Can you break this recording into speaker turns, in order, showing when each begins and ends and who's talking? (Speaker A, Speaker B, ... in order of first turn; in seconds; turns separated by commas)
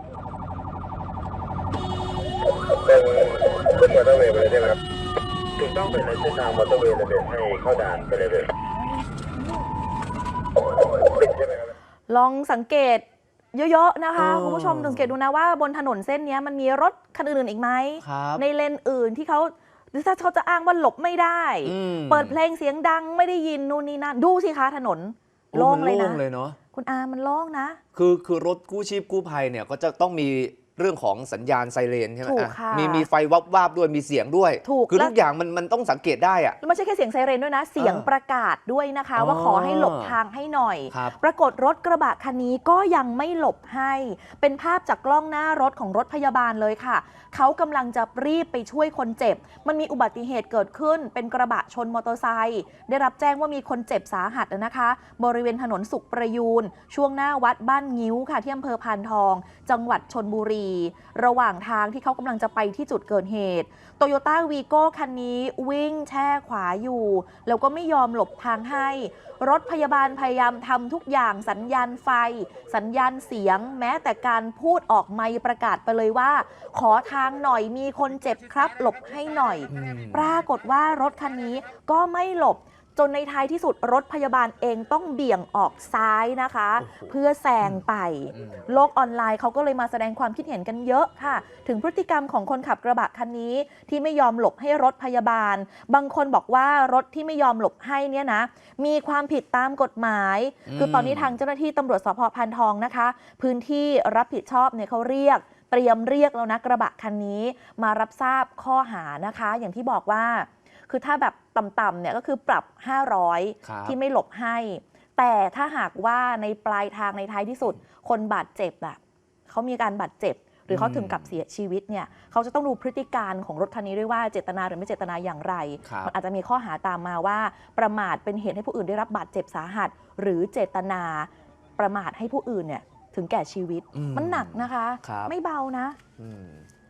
Speaker A: 2.8-4.8, Speaker A: 5.6-8.5, Speaker A: 11.2-11.6, Speaker B: 12.1-26.2, Speaker C: 14.2-15.1, Speaker C: 18.0-18.4, Speaker C: 21.6-22.4, Speaker C: 25.5-26.6, Speaker B: 26.7-27.8, Speaker C: 27.9-36.6, Speaker B: 32.2-33.1, Speaker B: 34.6-35.2, Speaker B: 36.6-136.0, Speaker C: 37.8-38.1, Speaker C: 39.2-40.2, Speaker C: 40.9-41.2, Speaker C: 79.7-80.4, Speaker C: 86.8-87.8, Speaker C: 88.3-88.6, Speaker C: 100.7-101.4, Speaker C: 113.6-114.0, Speaker C: 120.7-121.4, Speaker C: 125.8-126.1, Speaker C: 133.9-135.3, Speaker C: 136.2-136.7